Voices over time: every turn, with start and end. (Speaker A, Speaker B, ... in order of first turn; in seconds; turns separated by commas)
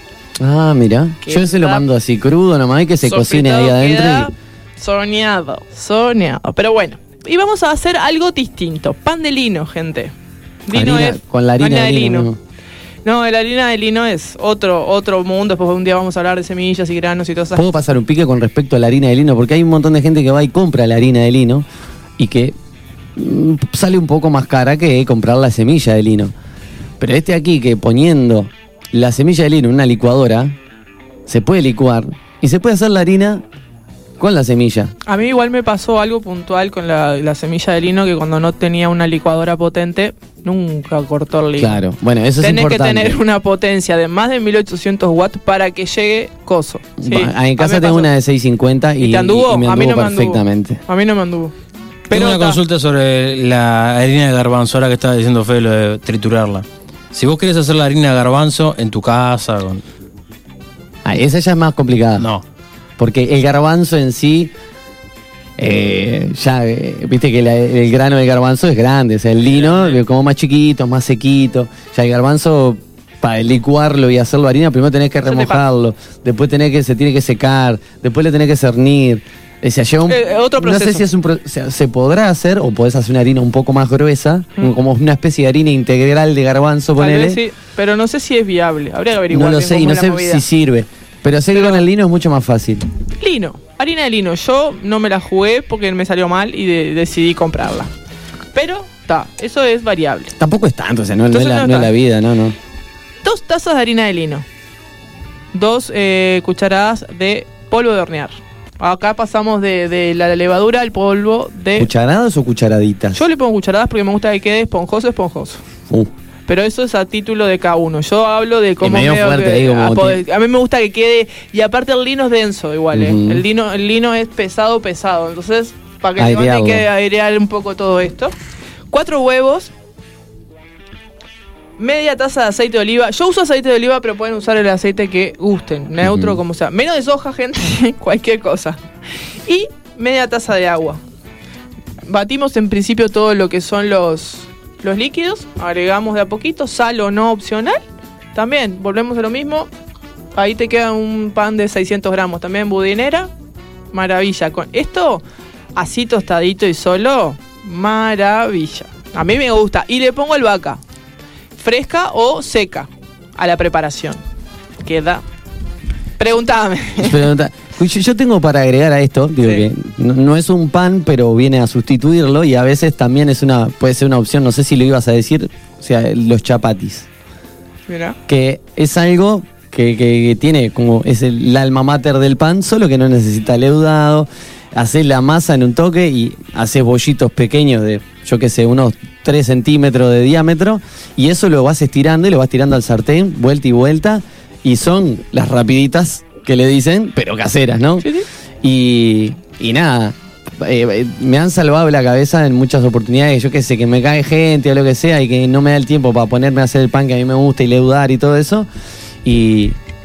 Speaker A: 0.4-4.3, Speaker B: 1.2-1.9, Speaker B: 3.0-10.1, Speaker B: 10.7-12.3, Speaker A: 10.7-12.4, Speaker B: 13.1-17.6, Speaker A: 17.6-21.6, Speaker A: 22.2-22.6, Speaker A: 23.2-26.3, Speaker A: 27.0-30.6, Speaker A: 31.3-33.4, Speaker A: 34.2-34.9, Speaker B: 35.1-41.8, Speaker A: 41.6-43.2, Speaker B: 42.4-48.1, Speaker A: 47.0-50.8, Speaker B: 49.0-51.5, Speaker B: 52.1-52.6, Speaker C: 52.1-59.8, Speaker A: 61.0-62.3, Speaker C: 62.2-62.4, Speaker A: 63.0-64.5, Speaker A: 65.6-87.4, Speaker C: 69.5-70.0, Speaker B: 75.2-75.6, Speaker B: 80.1-81.0, Speaker B: 87.0-90.4, Speaker A: 89.3-92.8, Speaker B: 91.5-91.8, Speaker B: 93.2-97.9, Speaker B: 98.5-100.3, Speaker A: 100.4-102.6, Speaker B: 101.3-101.9, Speaker B: 103.2-104.5, Speaker B: 105.5-111.9, Speaker A: 111.8-113.2, Speaker B: 113.1-115.6, Speaker B: 116.5-128.3, Speaker A: 118.8-120.2, Speaker A: 122.9-123.4, Speaker A: 126.2-126.9, Speaker B: 128.9-129.7, Speaker B: 131.8-138.8, Speaker A: 136.0-136.4, Speaker B: 139.5-141.0, Speaker B: 142.1-149.7, Speaker B: 150.3-153.3, Speaker B: 153.9-155.2, Speaker B: 155.8-160.8, Speaker B: 161.6-164.2, Speaker B: 164.8-165.2, Speaker B: 166.2-167.3, Speaker A: 167.0-177.1, Speaker B: 169.4-169.7, Speaker B: 177.9-178.2, Speaker A: 178.3-198.1, Speaker A: 198.6-208.7, Speaker A: 209.2-209.8